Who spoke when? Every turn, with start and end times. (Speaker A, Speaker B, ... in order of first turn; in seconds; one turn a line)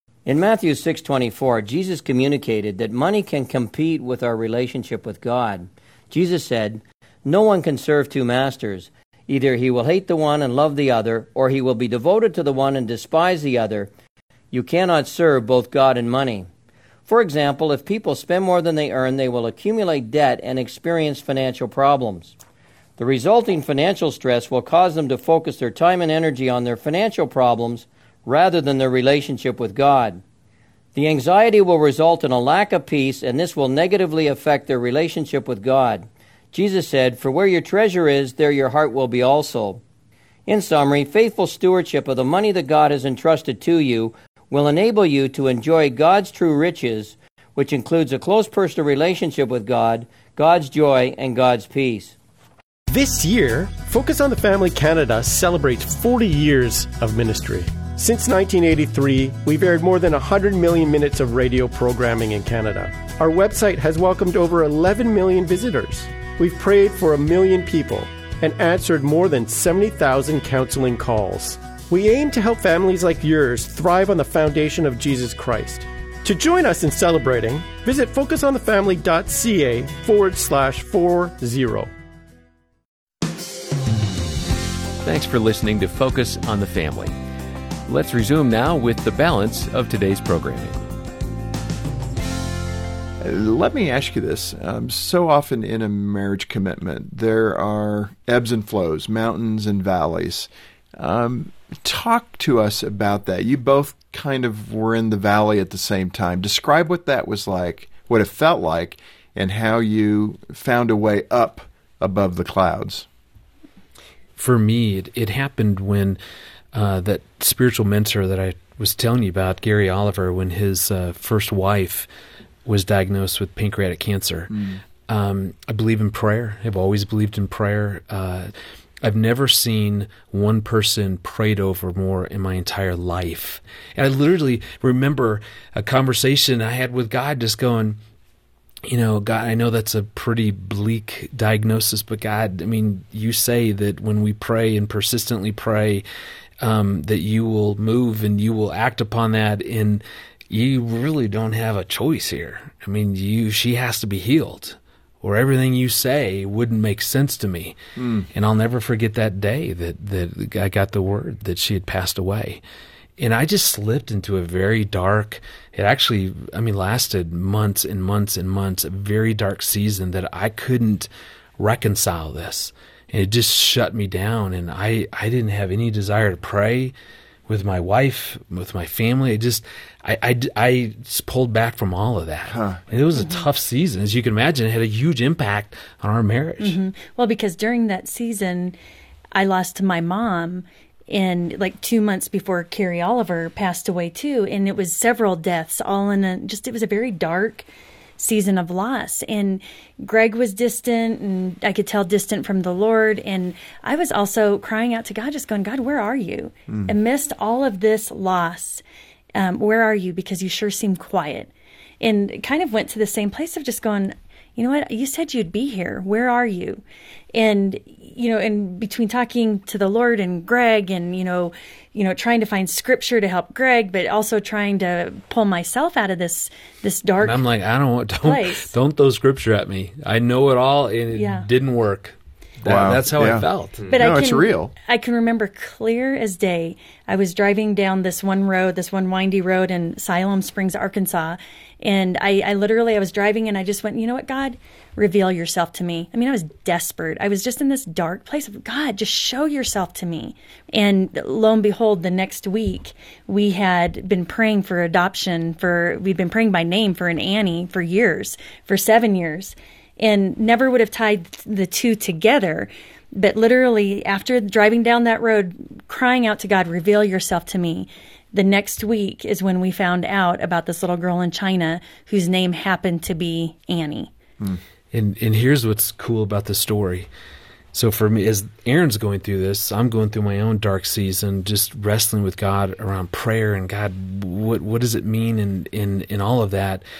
Speaker A: 0.3-13.9
Speaker A: 14.5-16.5
Speaker A: 17.1-22.3
Speaker A: 23.0-30.2
Speaker A: 30.9-39.8
Speaker A: 40.5-52.1
Speaker B: 52.9-81.9
Speaker C: 85.0-87.2
Speaker C: 87.9-90.8
Speaker D: 93.2-113.1
Speaker E: 114.4-116.2
Speaker E: 116.7-122.1
Speaker E: 122.7-128.5
Speaker E: 129.0-138.0
Speaker E: 138.9-146.0
Speaker E: 146.6-157.8
Speaker D: 158.0-158.3
Speaker E: 158.3-162.6
Speaker E: 163.2-176.9
Speaker E: 177.5-186.8
Speaker D: 182.5-182.8
Speaker F: 186.6-188.8
Speaker F: 189.3-197.7
Speaker F: 198.2-208.8
Speaker F: 209.3-216.8
Speaker F: 217.3-227.4
Speaker E: 227.2-233.9
Speaker F: 228.2-228.7
Speaker F: 231.1-231.5
Speaker D: 232.7-234.7
Speaker F: 233.9-274.1
Speaker E: 274.9-277.1
Speaker E: 277.7-286.8